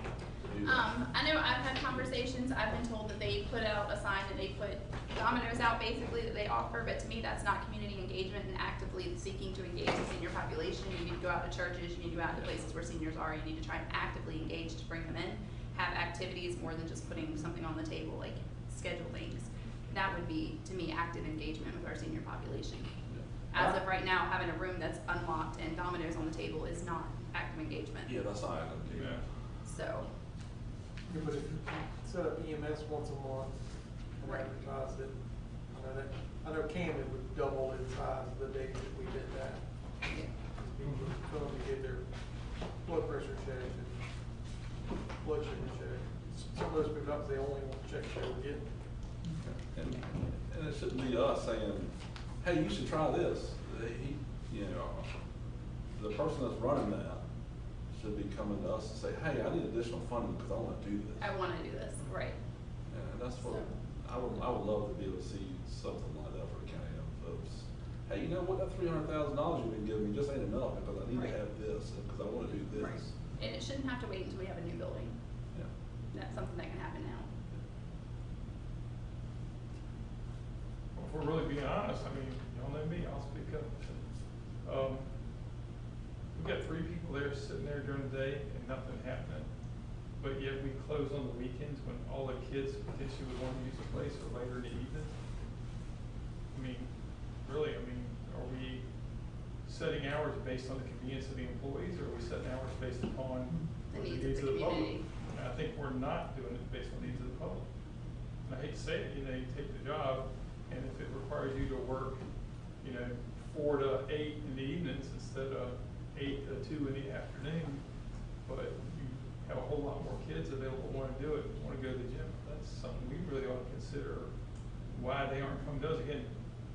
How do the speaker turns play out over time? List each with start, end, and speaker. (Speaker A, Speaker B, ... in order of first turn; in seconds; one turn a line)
Speaker A: 0.4-0.9
Speaker B: 0.6-22.9
Speaker A: 23.1-23.8
Speaker B: 23.5-28.3
Speaker A: 28.1-29.2
Speaker C: 28.9-29.2
Speaker B: 29.6-30.1
Speaker D: 31.1-39.6
Speaker B: 34.2-34.5
Speaker D: 40.5-42.0
Speaker D: 42.8-43.9
Speaker D: 45.2-48.6
Speaker A: 49.3-55.1
Speaker A: 56.0-57.2
Speaker A: 57.9-61.3
Speaker B: 61.2-62.4
Speaker A: 62.9-73.2
Speaker B: 63.4-63.7
Speaker B: 71.1-71.4
Speaker B: 72.7-75.2
Speaker B: 76.1-77.3
Speaker C: 80.9-84.0
Speaker C: 84.6-85.0
Speaker C: 86.3-89.5
Speaker C: 90.2-95.2
Speaker C: 96.5-96.9
Speaker C: 97.4-98.8
Speaker C: 99.6-107.6
Speaker B: 103.9-105.0
Speaker C: 108.4-112.2
Speaker C: 112.8-117.8
Speaker C: 118.4-124.3
Speaker C: 124.9-126.3